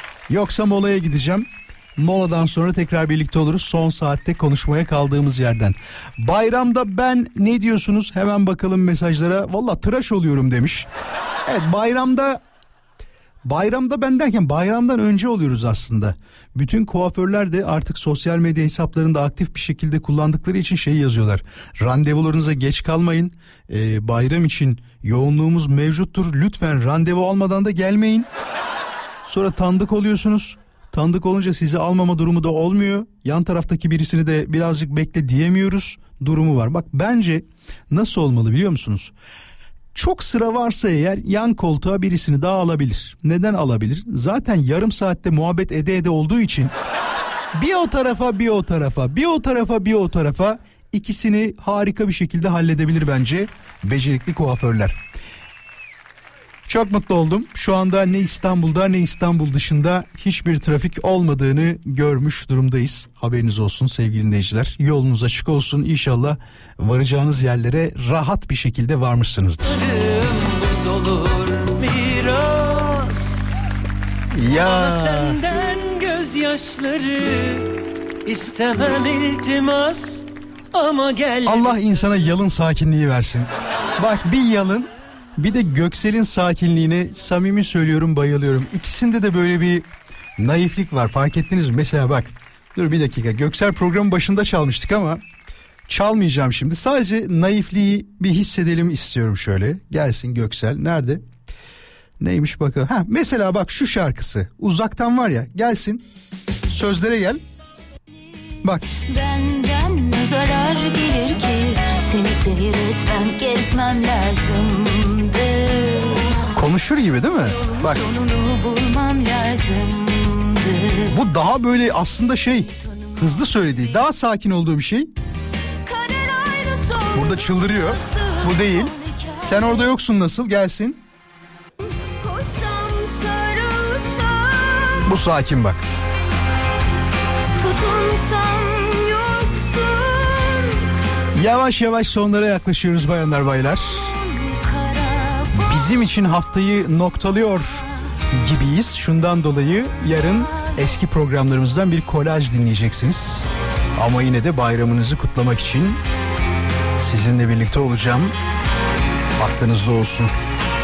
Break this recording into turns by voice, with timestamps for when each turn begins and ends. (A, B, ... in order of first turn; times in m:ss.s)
0:00.3-0:10.9 A
0:11.5-0:12.4 A
0:13.4-0:28.3 A
0:29.2-0:39.1 A
0:40.0-0:46.7 A
0:47.5-0:55.0 A
0:56.7-1:09.8 A
1:09.7-1:13.4 B
1:14.3-1:15.4 A
1:14.4-1:22.0 B
1:21.4-1:35.2 A
1:35.9-1:41.2 A
1:42.2-1:46.0 A
1:46.7-1:47.4 A
1:49.1-1:56.5 C
1:56.6-1:58.0 A
1:57.6-2:01.2 C
2:01.1-2:05.1 A
2:02.7-2:03.9 C
2:05.7-2:09.9 C
2:07.1-2:11.0 A
2:12.0-2:15.1 C
2:15.0-2:15.8 A
2:17.6-2:20.9 C
2:21.3-2:24.1 A
2:24.0-2:26.0 C
2:25.6-2:36.0 A
2:30.2-2:30.8 C
2:37.0-2:38.3 A
2:39.4-2:40.3 A